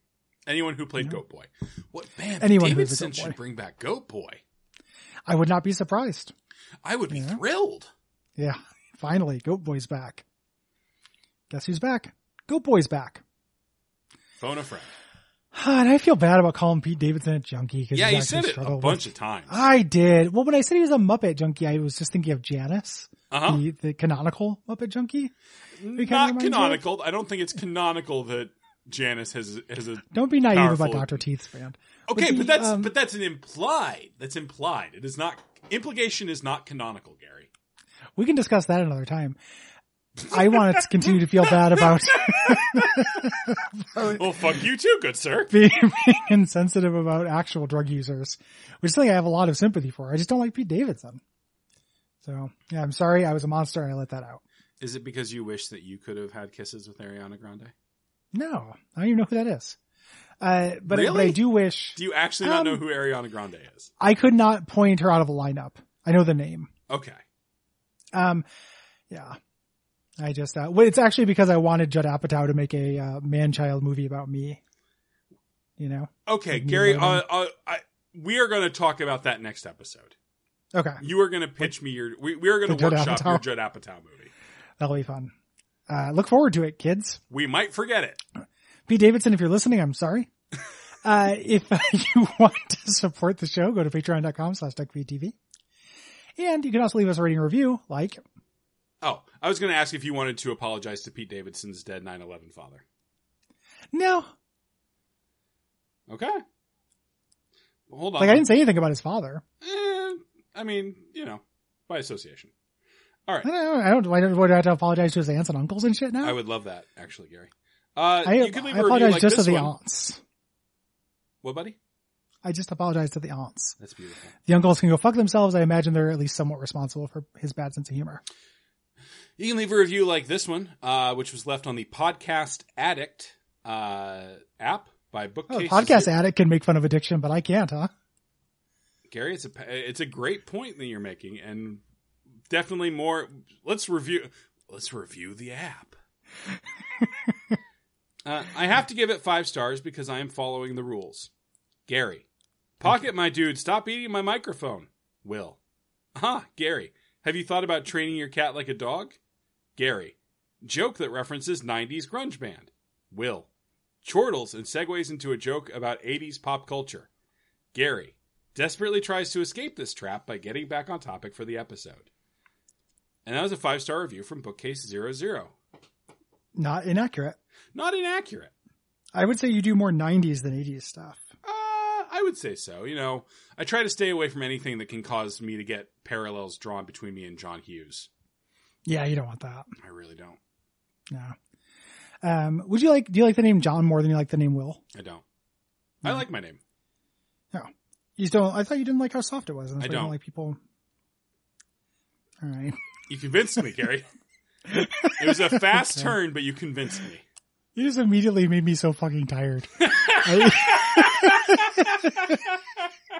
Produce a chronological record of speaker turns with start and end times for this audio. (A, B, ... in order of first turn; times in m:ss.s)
0:00.4-0:04.4 A
0:02.4-0:03.4 B
0:05.3-0:06.3 B
0:06.8-0:07.9 A
0:07.1-0:07.4 B
0:08.4-0:10.2 B
0:11.5-0:13.2 B
0:14.4-0:14.9 A
0:15.5-0:25.3 B
0:17.9-0:19.6 A
0:23.3-0:23.6 A
0:25.8-0:31.2 A
0:26.0-0:26.8 B
0:30.1-0:32.9 B
0:32.1-0:37.5 A
0:38.2-0:39.4 B
0:40.3-0:43.0 A
0:40.3-0:44.3 B
0:44.0-0:45.5 A
0:45.5-0:51.2 B
0:52.2-0:54.4 B
0:54.8-0:57.7 A
0:58.3-0:59.8 B
1:00.4-1:02.8 B
1:00.9-1:03.9 A
1:04.0-1:06.7 B
1:06.9-1:07.2 A
1:08.1-1:08.4 B
1:09.1-1:09.4 B
1:10.2-1:14.6 B
1:15.8-1:17.2 B
1:16.2-1:20.1 A
1:20.7-1:21.0 B
1:21.0-1:24.3 A
1:22.6-1:23.4 B
1:24.8-1:25.3 B
1:25.9-1:27.2 B
1:27.3-1:28.2 A
1:28.9-1:30.3 B
1:31.0-1:35.4 B
1:36.4-1:38.2 B
1:39.0-1:42.8 A
1:43.9-1:44.3 B
1:46.1-1:46.4 A
1:47.9-1:48.5 A
1:48.2-1:49.4 B
1:49.6-1:52.5 A
1:53.4-1:56.4 B
1:56.2-1:59.7 A
1:58.2-2:00.2 B
2:01.4-2:01.8 A
2:02.4-2:03.8 B
2:03.8-2:04.3 A
2:04.5-2:08.2 B
2:09.4-2:16.1 A
2:15.5-2:17.9 B
2:19.1-2:21.8 A
2:22.5-2:25.9 A
2:28.2-2:31.3 A
2:31.9-2:32.2 A
2:32.8-2:35.6 A
2:36.2-2:39.2 A
2:39.8-2:43.5 A
2:44.0-2:47.1 A
2:47.7-2:52.1 A
2:53.2-2:55.5 A
2:56.6-2:57.4 B
2:57.7-2:58.5 A
2:59.1-3:01.3 B
3:01.4-3:08.1 A
3:08.8-3:09.7 B
3:09.8-3:10.4 A
3:11.1-3:11.3 B
3:12.2-3:14.8 B
3:14.9-3:15.2 A
3:16.0-3:16.6 A
3:17.5-3:20.6 B
3:19.8-3:20.1 A
3:22.4-3:22.8 B
3:23.1-3:24.1 A
3:24.7-3:26.1 B
3:25.2-3:27.2 A
3:27.8-3:32.1 B
3:29.8-3:32.3 A